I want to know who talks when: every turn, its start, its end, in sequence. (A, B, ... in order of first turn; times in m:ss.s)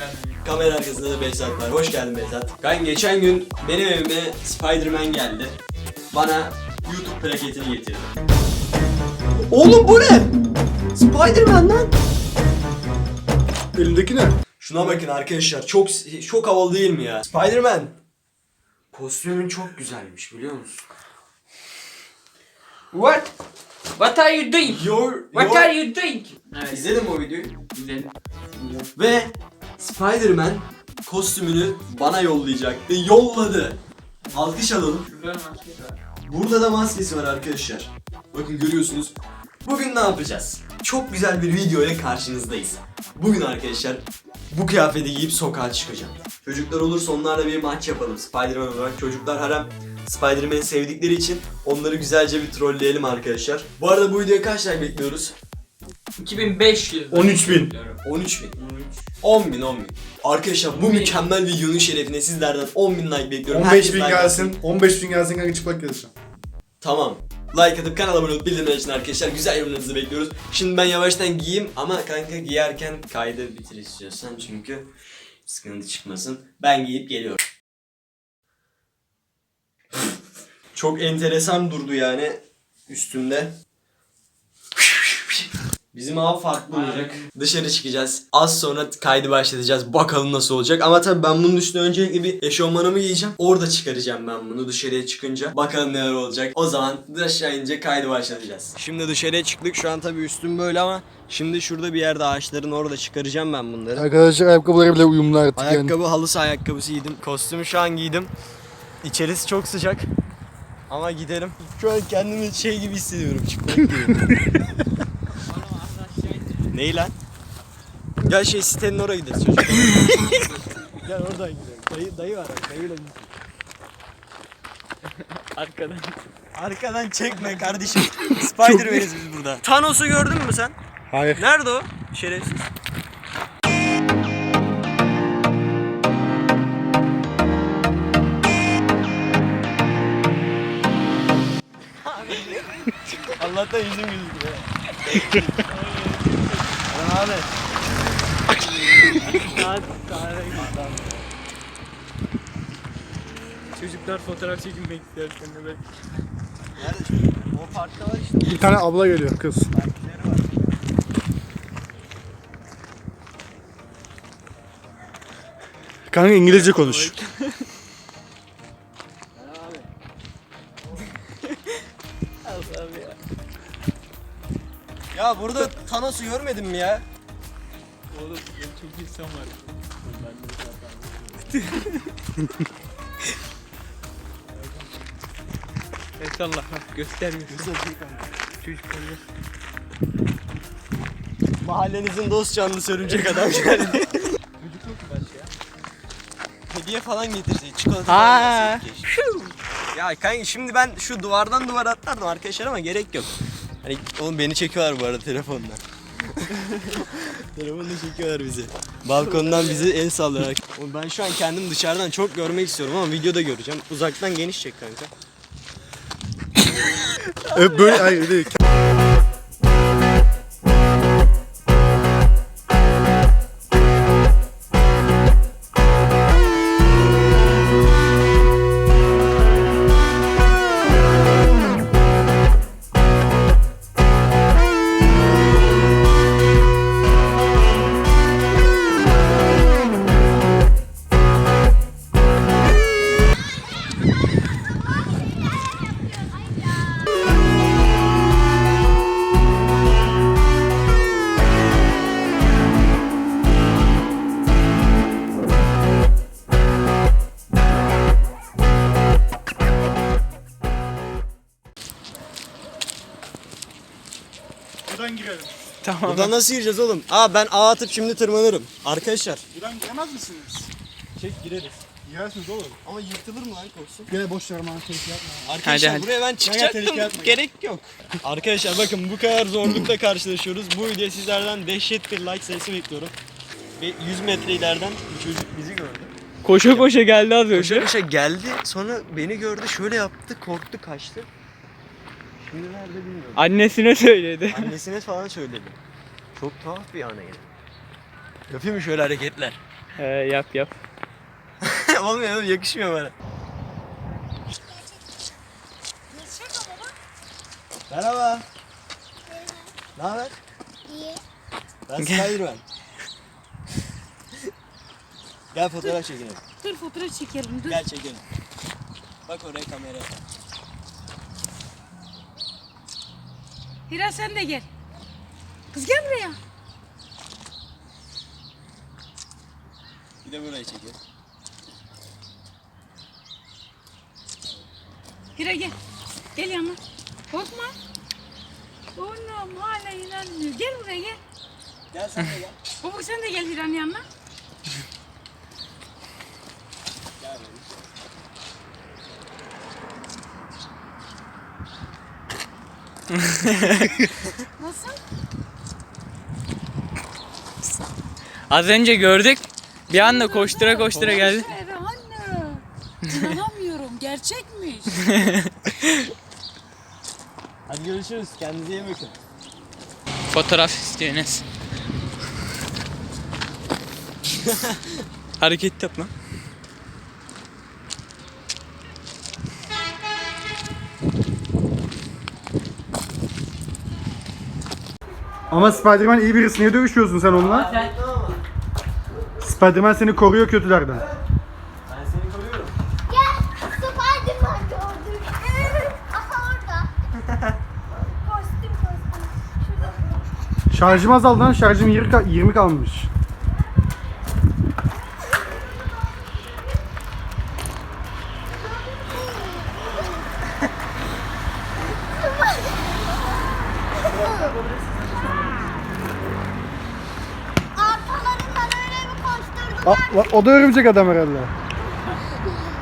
0:00.4-0:05.6 A
0:06.1-0:08.2 A
0:09.5-0:10.3 A
0:10.9-0:12.0 A
0:13.8-0:14.4 B
0:14.6-0:18.0 A
0:18.9-0:20.8 A
0:22.9-0:23.3 C
0:24.0-0:26.9 C
0:24.6-0:25.8 A
0:26.7-0:27.6 A
0:27.7-0:28.8 C
0:28.9-0:33.8 A
0:34.3-0:36.0 C
0:34.3-0:35.1 A
0:36.3-0:55.4 A
0:56.2-0:58.0 C
0:57.1-0:57.7 B
0:58.0-0:58.6 A
0:58.6-0:58.9 C
0:59.2-1:04.6 A
1:00.7-1:01.2 C
1:03.5-1:06.1 B
1:06.8-1:14.9 A
1:15.4-1:17.4 A
1:20.7-1:23.5 A
1:24.8-1:25.4 A
1:25.9-1:44.1 A
1:26.7-1:27.3 C
1:44.0-1:46.0 B
1:45.6-1:48.3 A
1:49.0-1:50.1 A
1:50.9-1:54.3 A
1:55.5-1:56.4 C
1:56.7-1:57.2 A
1:58.2-2:03.3 A
2:05.2-2:06.2 C
2:06.6-2:10.8 A
2:08.6-2:09.1 B
2:11.1-2:11.4 B
2:11.3-2:12.7 A
2:22.0-2:24.7 A
2:22.4-2:22.8 C
2:25.1-2:26.8 C
2:26.9-2:27.5 A
2:29.0-2:30.7 C
2:30.5-2:31.3 A
2:33.8-2:35.8 C
2:36.8-2:38.8 A
2:38.5-2:39.7 B
2:39.7-2:40.7 A
2:46.1-2:47.2 B
2:46.5-2:47.7 C
2:49.4-2:49.9 A
2:51.5-2:51.7 C
2:52.4-2:53.2 C
2:55.1-2:57.0 A
2:58.1-3:00.6 C
3:01.3-3:02.1 C
3:06.2-3:07.7 C
3:07.5-3:08.4 A
3:08.6-3:09.2 C
3:11.6-3:14.3 A
3:14.6-3:15.5 C
3:16.7-3:19.1 A
3:18.1-3:19.5 C
3:19.9-3:23.3 A
3:23.8-3:35.1 A
3:29.2-3:29.9 C
3:37.5-3:38.5 B
3:37.6-3:38.2 C
4:24.9-4:25.5 B
4:25.8-4:26.3 C
4:26.0-4:29.4 A
4:29.5-4:30.7 B
4:31.2-4:31.8 A
4:32.0-4:32.8 B
4:32.8-4:34.1 A
4:34.1-4:35.6 B
4:35.5-4:43.2 A
4:35.6-4:36.1 C
4:36.4-4:37.4 B
4:43.8-4:46.9 A
4:46.4-4:47.9 C
4:47.5-4:51.3 A
4:52.4-4:53.4 A
4:53.4-4:54.7 C
4:54.5-4:55.8 A
4:56.4-4:57.5 A
4:58.5-4:59.6 A
5:00.0-5:00.8 C
5:01.6-5:03.1 A
5:06.1-5:07.0 D
5:07.9-5:08.5 A
5:09.3-5:09.7 E
5:10.0-5:10.4 A
5:10.9-5:11.2 E
5:11.9-5:12.6 A
5:12.0-5:12.3 C
5:15.5-5:16.4 A
5:16.6-5:17.8 D
5:17.7-5:18.2 A
5:19.3-5:20.1 A
5:23.9-5:24.7 D
5:25.7-5:26.4 D
5:30.2-5:31.0 A
5:35.4-5:35.8 D
5:36.4-5:36.8 D
5:37.3-5:37.8 D
5:39.0-5:41.2 D
5:41.9-5:42.6 A
5:42.8-5:44.0 D
5:47.2-5:47.8 A
5:53.1-5:54.1 C
5:54.6-5:55.0 D
5:58.5-6:01.5 C
5:59.9-6:05.0 D
6:05.0-6:06.0 C
6:07.7-6:09.2 A
6:10.3-6:11.4 C
6:14.4-6:15.0 A
6:15.4-6:16.1 C
6:25.5-6:27.7 B
6:27.3-6:28.4 A
6:29.4-6:31.0 B
6:30.9-6:31.2 A
6:31.9-6:32.8 A
6:33.1-6:36.9 E
6:37.3-6:37.5 A
6:38.3-6:38.8 E
6:38.4-6:39.3 D
6:40.7-6:43.1 B
6:48.9-6:49.9 E
6:52.2-6:52.9 E
6:54.2-6:54.5 E
6:57.8-7:00.3 E
6:59.8-7:01.5 B